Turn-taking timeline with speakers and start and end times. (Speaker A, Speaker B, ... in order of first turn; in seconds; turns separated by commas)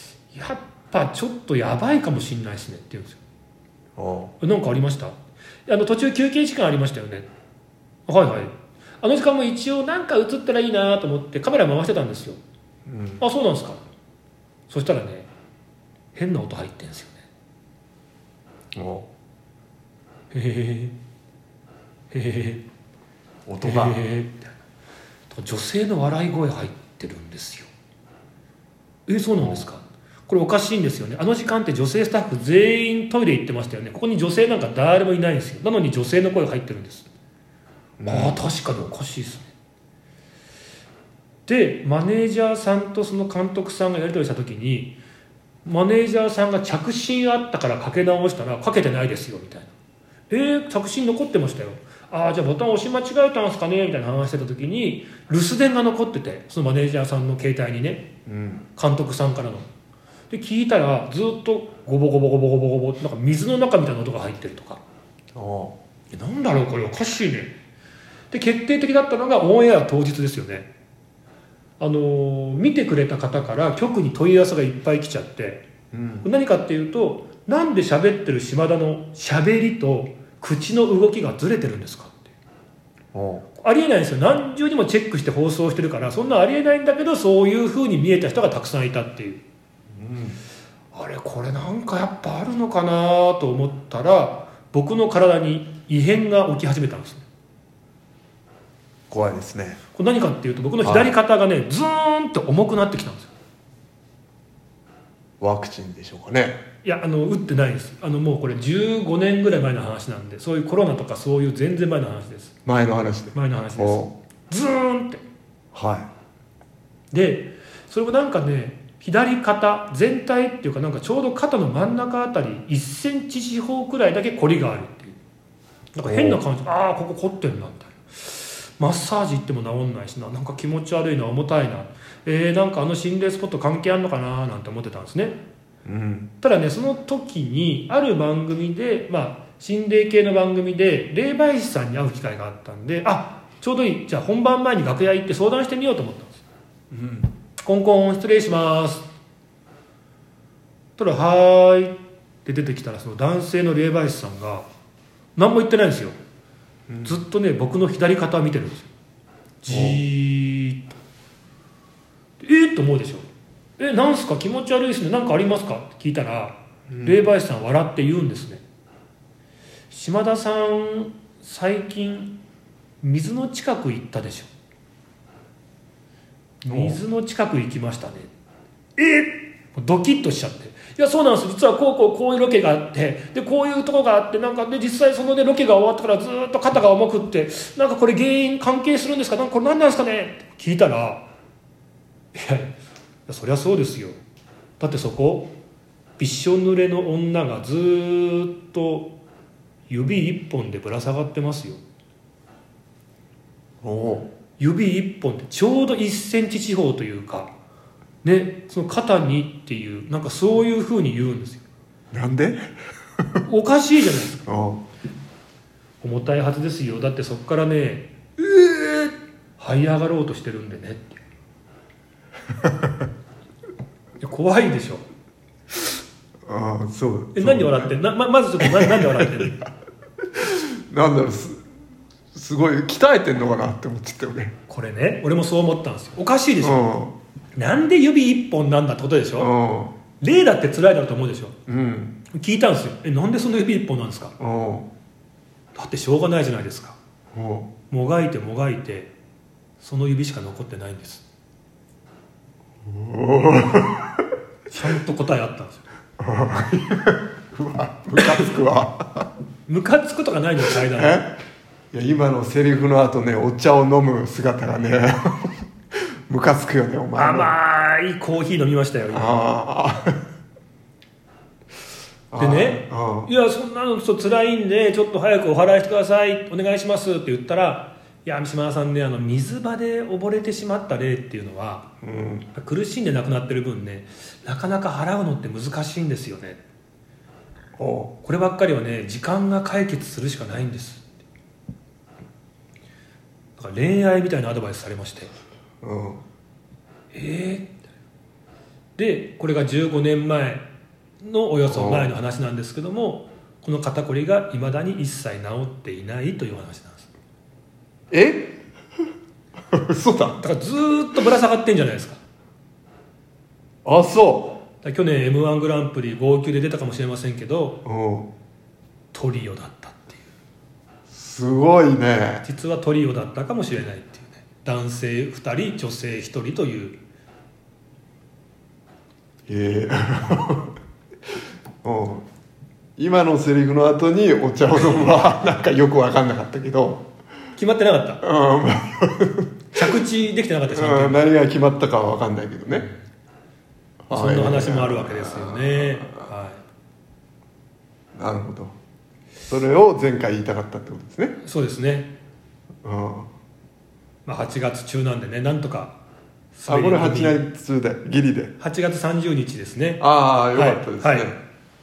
Speaker A: 0.3-3.2, Speaker B: 4.0-4.3, Speaker A: 4.4-5.2, Speaker A: 5.7-7.3, Speaker A: 8.1-12.4, Speaker B: 12.9-13.2, Speaker A: 13.2-13.8, Speaker A: 14.7-15.3, Speaker A: 16.1-17.2, Speaker B: 18.7-19.1, Speaker A: 20.3-20.9, Speaker A: 22.1-22.6, Speaker B: 23.5-24.0, Speaker A: 23.6-24.5, Speaker A: 25.3-27.7, Speaker A: 29.1-37.1, Speaker B: 29.4-29.6, Speaker B: 38.0-38.4, Speaker A: 38.1-39.5, Speaker A: 41.5-45.0, Speaker A: 45.6-49.7, Speaker A: 50.3-58.1, Speaker B: 58.3-58.7, Speaker A: 58.8-59.6, Speaker A: 60.3-64.8, Speaker B: 65.3-65.8, Speaker A: 66.1-67.6, Speaker A: 68.3-70.7, Speaker A: 71.8-75.6, Speaker B: 75.9-76.3, Speaker A: 76.2-82.3, Speaker B: 83.1-83.5, Speaker A: 83.5-89.4, Speaker B: 90.0-90.4, Speaker A: 90.9-97.3, Speaker B: 99.1-99.8, Speaker A: 100.0-103.3, Speaker B: 100.8-101.1, Speaker B: 105.4-106.6, Speaker A: 106.8-112.6, Speaker B: 112.7-114.1, Speaker A: 113.3-115.2, Speaker B: 115.7-116.1, Speaker A: 117.1-125.2, Speaker A: 126.0-135.4, Speaker B: 126.1-126.4, Speaker B: 135.9-136.3, Speaker A: 136.4-146.4, Speaker B: 146.9-147.3, Speaker A: 147.6-149.1, Speaker A: 151.0-154.7, Speaker A: 155.4-156.2, Speaker B: 156.9-157.2, Speaker A: 157.0-158.9, Speaker A: 159.6-161.0, Speaker B: 159.7-160.0, Speaker A: 162.4-163.3, Speaker A: 163.8-168.6, Speaker B: 166.9-167.2, Speaker A: 169.9-172.3, Speaker A: 173.0-174.5, Speaker A: 176.6-178.3, Speaker B: 176.7-177.0, Speaker A: 179.0-191.2, Speaker A: 192.3-192.7, Speaker A: 193.3-194.2, Speaker A: 194.8-195.5, Speaker A: 196.2-199.1, Speaker A: 199.9-201.8, Speaker B: 203.8-204.3, Speaker A: 204.6-207.5, Speaker A: 208.2-211.6, Speaker B: 212.1-212.7, Speaker A: 213.5-214.4, Speaker B: 214.4-214.8, Speaker A: 216.0-221.2, Speaker B: 222.6-222.9, Speaker A: 224.2-225.0, Speaker B: 226.5-227.9, Speaker A: 227.3-229.6, Speaker B: 228.6-229.7, Speaker B: 230.3-231.6, Speaker B: 232.3-234.5, Speaker A: 234.7-236.9, Speaker B: 236.6-237.2, Speaker A: 237.6-239.5, Speaker B: 239.4-239.9, Speaker A: 240.2-241.6, Speaker B: 241.7-242.2, Speaker A: 242.3-244.3, Speaker B: 244.4-244.9, Speaker A: 245.8-247.0, Speaker B: 247.3-247.7, Speaker A: 247.9-249.1, Speaker A: 249.8-251.2, Speaker B: 252.8-254.2, Speaker A: 254.7-255.8, Speaker B: 256.2-259.3, Speaker A: 259.7-261.2, Speaker B: 260.8-261.3, Speaker B: 261.9-265.5, Speaker B: 266.3-267.5, Speaker A: 267.2-269.5, Speaker B: 269.1-270.1, Speaker B: 272.3-273.3, Speaker A: 272.4-281.9, Speaker B: 282.0-282.5, Speaker A: 282.6-286.6, Speaker B: 287.8-288.1, Speaker A: 288.2-291.1, Speaker A: 293.6-295.3, Speaker B: 295.8-296.2, Speaker A: 297.1-297.8, Speaker A: 299.0-300.6, Speaker A: 301.2-307.1, Speaker B: 301.7-302.1, Speaker B: 308.1-308.6, Speaker B: 309.7-310.4, Speaker A: 310.4-312.2, Speaker B: 313.9-314.6, Speaker A: 314.8-317.8, Speaker B: 317.9-318.3, Speaker A: 319.1-320.2, Speaker B: 321.1-322.4, Speaker A: 322.4-327.0, Speaker B: 329.5-330.7, Speaker B: 331.8-332.2, Speaker B: 333.0-337.0, Speaker A: 337.6-338.2, Speaker B: 338.2-340.0, Speaker A: 339.7-341.3, Speaker B: 340.7-342.9, Speaker A: 342.7-343.1, Speaker B: 344.1-346.3, Speaker A: 344.1-346.6, Speaker B: 348.2-348.8, Speaker B: 349.5-351.4, Speaker A: 351.4-352.1, Speaker B: 352.8-353.3, Speaker A: 354.3-356.0, Speaker A: 356.6-357.4, Speaker B: 356.7-358.5, Speaker A: 358.6-360.0, Speaker B: 360.0-361.4, Speaker A: 360.5-361.3